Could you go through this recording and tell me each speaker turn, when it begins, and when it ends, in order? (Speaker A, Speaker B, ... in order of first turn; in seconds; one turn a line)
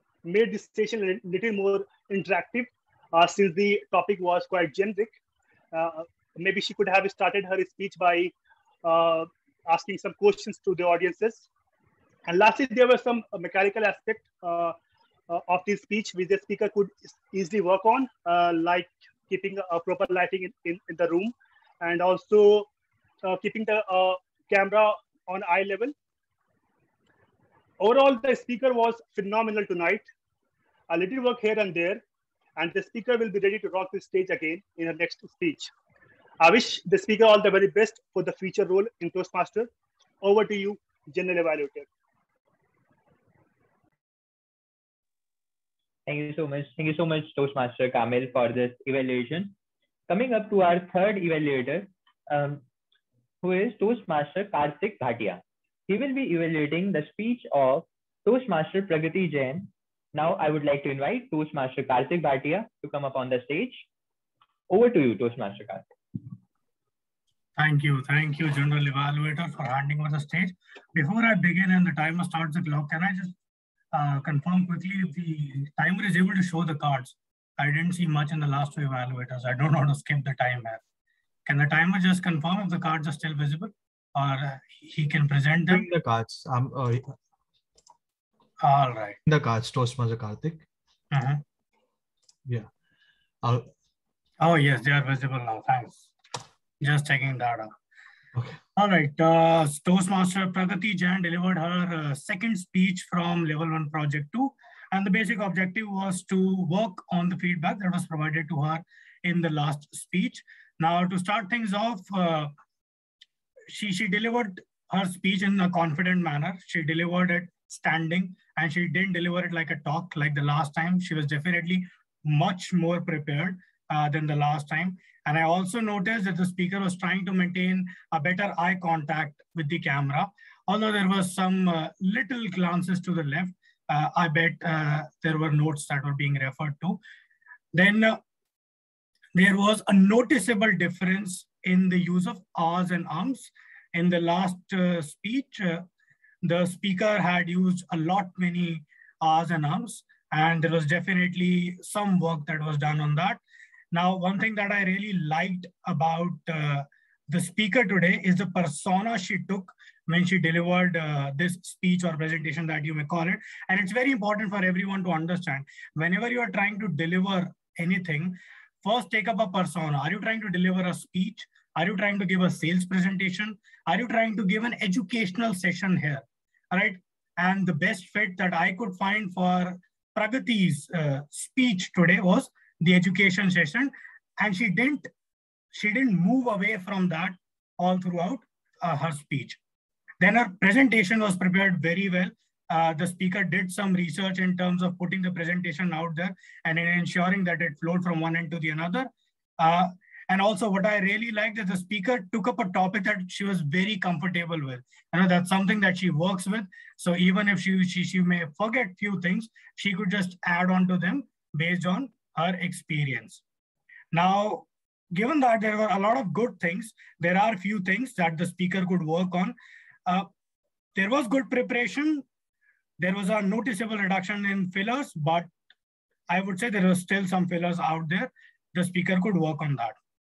Speaker A: 0.2-5.1
Speaker A: 5.7-8.3
Speaker A: 8.8-11.5
Speaker A: 12.3-14.7
Speaker A: 15.3-22.7
Speaker A: 23.2-25.9
Speaker A: 27.8-30.1
Speaker A: 30.9-32.0
Speaker A: 32.6-35.7
Speaker A: 36.4-39.7
Speaker A: 40.2-41.9
Speaker B: 46.1-49.5
Speaker B: 50.1-52.6
Speaker B: 53.4-63.8
Speaker B: 64.7-65.9
Speaker C: 67.6-73.3
Speaker C: 73.9-80.8
Speaker C: 81.5-85.9
Speaker D: 85.7-87.1
Speaker C: 88.6-89.2
Speaker D: 89.2-90.7
Speaker C: 91.1-91.4
Speaker D: 93.4-93.7
Speaker C: 94.4-96.1
Speaker C: 96.8-97.7
Speaker D: 98.3-98.6
Speaker C: 98.8-112.5
Speaker C: 113.7-137.0
Speaker C: 137.7-138.2
Speaker C: 139.3-145.8
Speaker C: 146.4-153.4
Speaker C: 153.9-185.1
Speaker C: 185.7-189.6
Speaker C: 190.2-213.4
Speaker C: 214.1-219.5
Speaker C: 220.9-222.2
Speaker C: 223.0-225.5
Speaker C: 226.3-230.0